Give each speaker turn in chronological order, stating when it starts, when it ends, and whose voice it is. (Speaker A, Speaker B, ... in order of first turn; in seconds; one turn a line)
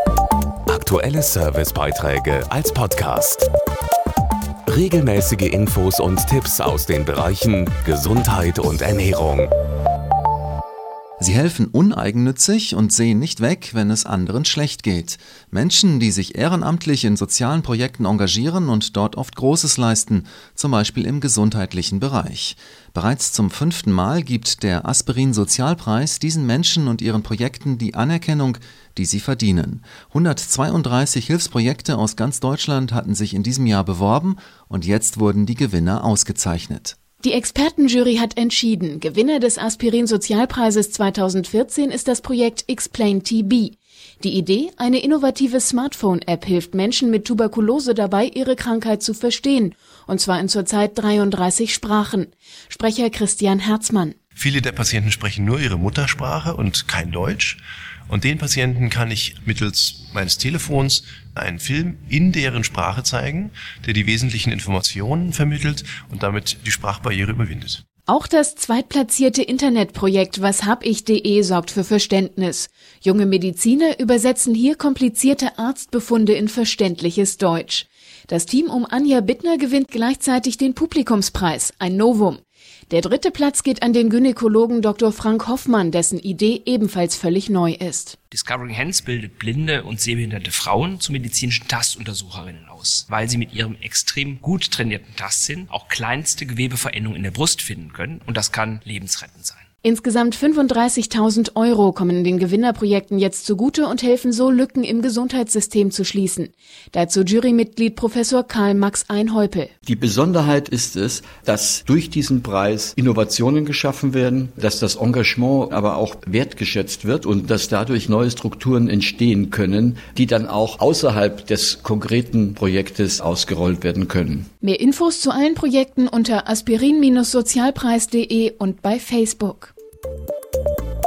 Speaker A: 0.7-3.5
Speaker A: 4.7-9.5
Speaker B: 11.2-37.0
Speaker C: 37.2-54.1
Speaker D: 54.4-67.8
Speaker C: 68.1-88.2
Speaker E: 88.3-99.6
Speaker C: 99.8-109.7
Speaker F: 109.8-124.5
Speaker C: 124.6-129.7